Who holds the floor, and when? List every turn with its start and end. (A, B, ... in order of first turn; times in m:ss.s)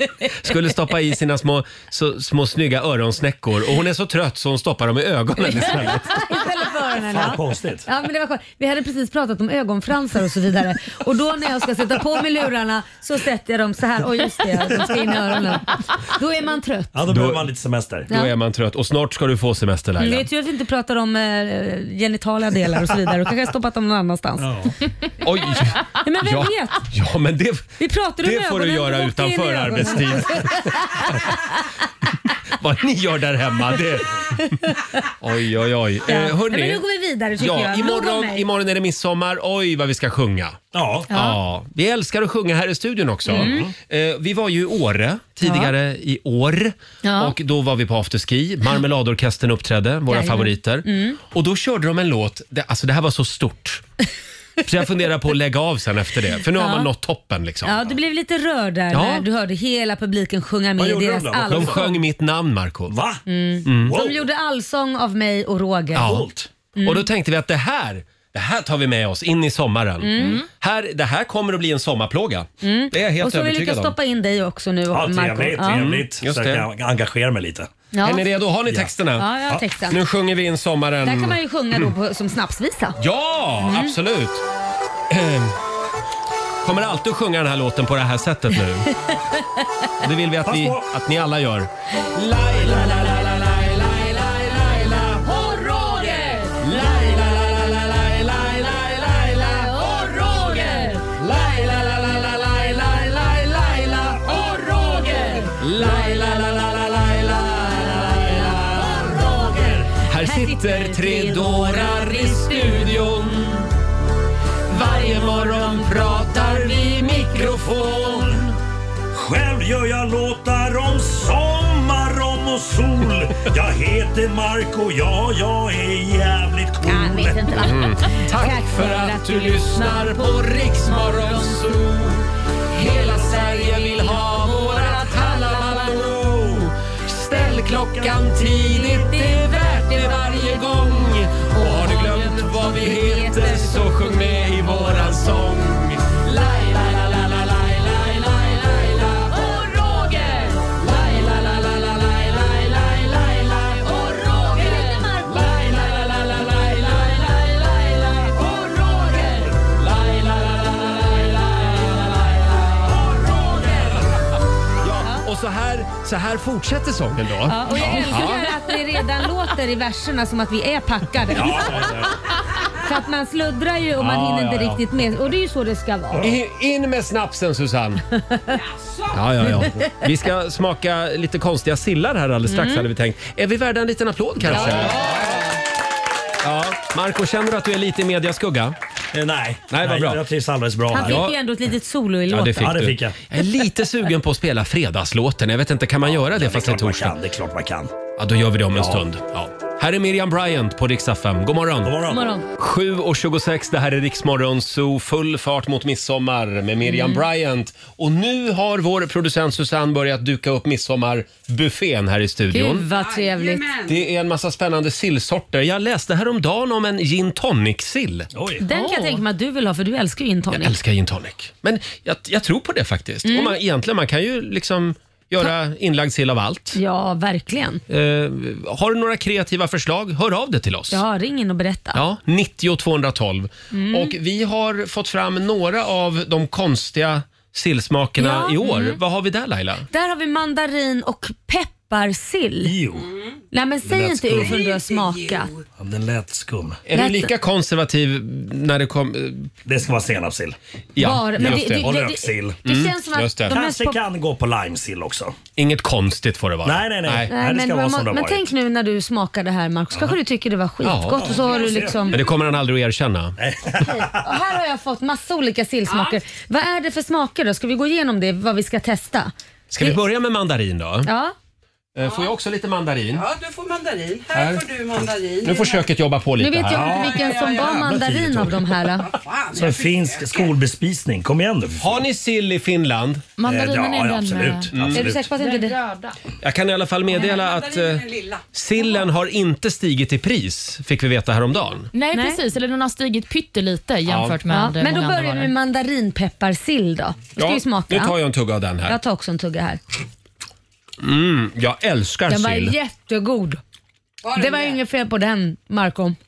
0:00.3-0:06.1 A
0:05.6-0:17.0 B
0:07.1-0:07.9 C
0:16.9-0:18.1 C
0:17.1-0:17.4 A
0:18.1-0:20.3 A
0:20.0-0:24.5 B
0:24.4-0:24.7 C
0:25.2-0:30.7 A
0:25.9-0:26.9 B
0:27.8-0:31.6 B
0:32.6-0:34.3 A
0:34.7-0:35.1 B
0:35.2-0:36.8 A
0:36.0-0:38.4 B
0:37.4-0:53.8 A
0:40.7-0:41.1 C
0:41.1-0:41.4 B
0:43.3-0:43.7 B
0:43.3-0:43.7 C
0:45.4-0:45.7 B
0:47.0-0:47.3 B
0:50.1-0:51.2 B
0:54.6-0:57.9 A
0:56.6-0:56.9 B
0:57.6-1:01.9 B
0:58.9-0:59.3 A
1:00.8-1:01.9 C
1:01.5-1:03.0 A
1:02.9-1:03.2 C
1:03.3-1:06.2 B
1:03.6-1:04.0 A
1:03.8-1:04.2 C
1:05.9-1:06.2 A
1:06.0-1:06.5 C
1:06.7-1:07.1 B
1:06.8-1:13.9 A
1:10.0-1:10.4 B
1:12.6-1:15.9 B
1:14.9-1:17.7 C
1:15.6-1:16.7 A
1:17.9-1:18.2 B
1:18.0-1:19.3 A
1:19.2-1:20.0 B
1:19.9-1:21.9 A
1:21.0-1:23.0 B
1:23.0-1:24.4 A
1:23.6-1:23.9 B
1:25.1-1:25.6 A
1:26.6-1:28.9 A
1:29.1-1:29.9 B
1:30.0-1:49.4 A
1:30.4-1:30.8 C
1:36.0-1:36.4 B
1:40.5-1:40.9 B
1:47.7-1:52.7 B
1:49.9-1:53.7 A
1:54.7-1:58.6 A
1:59.1-2:07.6 C
2:06.8-2:10.4 B
2:07.6-2:38.1 A
2:18.9-2:19.4 B
2:21.7-2:23.7 B
2:29.3-2:30.5 B
2:34.3-2:36.1 B
2:38.2-2:39.5 B
2:39.7-2:42.6 A
2:43.3-2:44.0 B
2:44.8-2:48.6 A
2:47.4-2:52.1 B
2:51.3-2:52.1 C
2:52.7-2:56.3 B
2:54.0-2:54.8 A
2:56.2-2:58.0 A
2:58.3-2:58.6 B
2:58.5-2:59.2 D
2:59.1-3:05.2 A
2:59.4-2:59.9 B
3:02.5-3:02.9 B
3:04.5-3:05.4 C
3:06.4-3:08.8 A
3:09.1-3:11.3 C
3:09.7-3:10.2 A
3:10.9-3:12.8 B
3:10.9-3:11.4 A
3:12.3-3:17.2 A
3:12.6-3:13.2 C
3:16.2-3:17.9 C
3:18.2-3:22.0 A
3:18.7-3:19.0 C
3:21.8-3:22.2 C
3:22.1-3:22.5 B
3:22.6-3:32.9 A
3:26.9-3:27.2 B
3:32.5-3:33.6 B
3:32.8-3:34.0 D
3:33.9-3:38.3 A
3:38.3-3:38.6 C
3:38.6-3:40.8 B
3:38.7-3:39.2 E
3:40.5-3:46.8 A
3:43.2-3:43.6 B
3:46.7-3:47.8 B
3:47.9-3:51.0 A
3:50.9-3:52.0 B
3:51.9-3:59.9 A
3:53.7-3:54.1 B
3:58.2-3:59.0 B
3:59.9-4:02.8 B
4:02.6-4:03.1 C
4:02.9-4:03.4 D
4:03.5-4:05.5 B
4:03.8-4:04.6 C
4:04.3-4:05.6 D
4:05.8-4:06.8 C
4:06.8-4:09.5 A
4:06.9-4:07.3 B
4:09.6-4:10.6 C
4:11.0-4:11.9 A
4:11.0-4:14.0 B
4:11.3-4:12.6 C
4:12.6-4:13.6 A
4:13.5-4:15.3 C
4:15.6-4:17.3 A
4:16.6-4:18.4 C
4:17.3-4:22.2 B
4:20.8-4:21.5 A
4:21.2-4:22.0 C
4:21.6-4:22.2 D
4:22.1-4:23.4 A
4:23.4-4:24.2 C
4:24.2-4:30.0 B
4:25.8-4:26.2 D
4:29.7-4:31.1 A
4:31.0-4:31.3 B
4:31.9-4:33.2 A
4:32.0-4:32.3 D
4:33.1-4:35.9 D
4:34.3-4:34.7 A
4:35.4-4:37.1 A
4:36.4-4:39.1 B
4:36.7-4:38.7 C
4:36.8-4:38.0 D
4:38.9-4:40.6 D
4:39.5-4:42.0 C
4:41.8-4:43.2 A
4:43.4-4:44.7 E
4:43.4-4:45.2 C
4:44.7-4:45.1 A
4:44.9-4:45.8 B
4:45.3-4:46.2 E
4:46.4-4:51.9 A
4:47.1-4:48.8 D
4:51.9-4:55.5 E
4:52.1-4:52.4 B
4:54.0-4:54.4 A
4:54.5-4:58.2 B
4:57.4-4:59.0 A
4:58.8-4:59.8 B
5:01.0-5:02.8 A
5:02.3-5:03.6 B
5:04.2-5:04.8 D
5:04.3-5:06.2 B